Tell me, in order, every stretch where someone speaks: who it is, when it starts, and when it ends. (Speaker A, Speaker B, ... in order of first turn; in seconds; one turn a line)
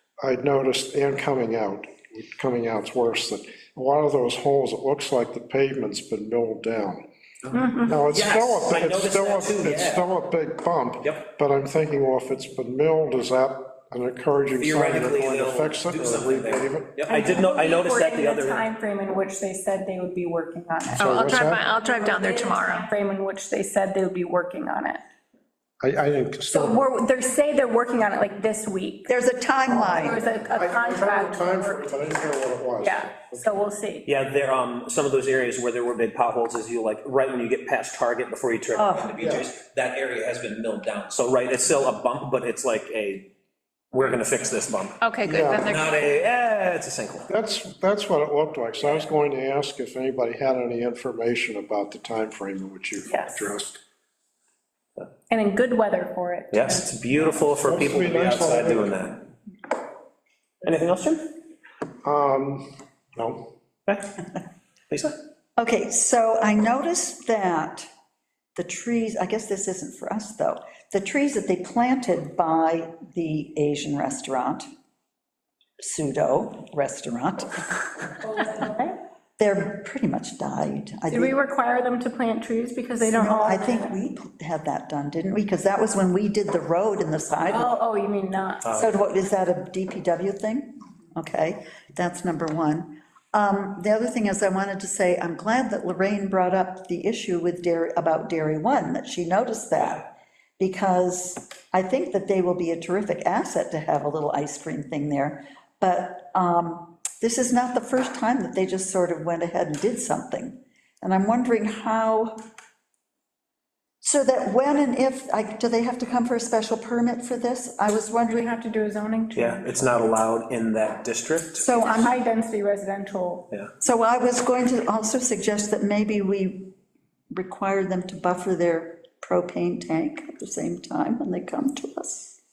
Speaker A: 0.2-7.0
Speaker B: 7.4-10.0
Speaker C: 7.5-7.9
Speaker A: 7.8-17.0
Speaker B: 11.0-11.3
Speaker B: 14.6-18.7
Speaker C: 17.1-21.1
Speaker A: 20.9-21.7
Speaker D: 21.0-22.9
Speaker C: 22.2-25.0
Speaker A: 25.8-26.9
Speaker C: 26.5-29.1
Speaker E: 29.1-30.2
Speaker C: 29.7-32.2
Speaker A: 29.8-33.6
Speaker C: 32.8-34.0
Speaker B: 34.0-43.3
Speaker E: 38.7-39.1
Speaker A: 39.2-39.5
Speaker B: 43.9-45.0
Speaker D: 45.0-46.0
Speaker A: 45.2-45.8
Speaker B: 45.6-47.3
Speaker A: 47.3-53.8
Speaker C: 53.1-53.4
Speaker C: 55.3-56.9
Speaker B: 56.5-59.3
Speaker A: 57.5-59.0
Speaker B: 60.6-61.3
Speaker A: 62.0-63.5
Speaker B: 63.9-64.2
Speaker B: 64.9-65.2
Speaker E: 65.6-67.9
Speaker E: 68.5-74.6
Speaker E: 75.8-78.2
Speaker C: 78.2-79.0
Speaker E: 79.4-81.4
Speaker C: 81.1-83.9
Speaker E: 83.0-87.7
Speaker C: 87.5-88.7
Speaker B: 88.6-88.9
Speaker E: 88.7-112.3
Speaker E: 114.0-118.5
Speaker C: 118.3-119.7
Speaker B: 119.3-121.7
Speaker E: 121.5-122.2
Speaker C: 121.8-123.5
Speaker E: 123.8-126.7
Speaker E: 127.3-132.4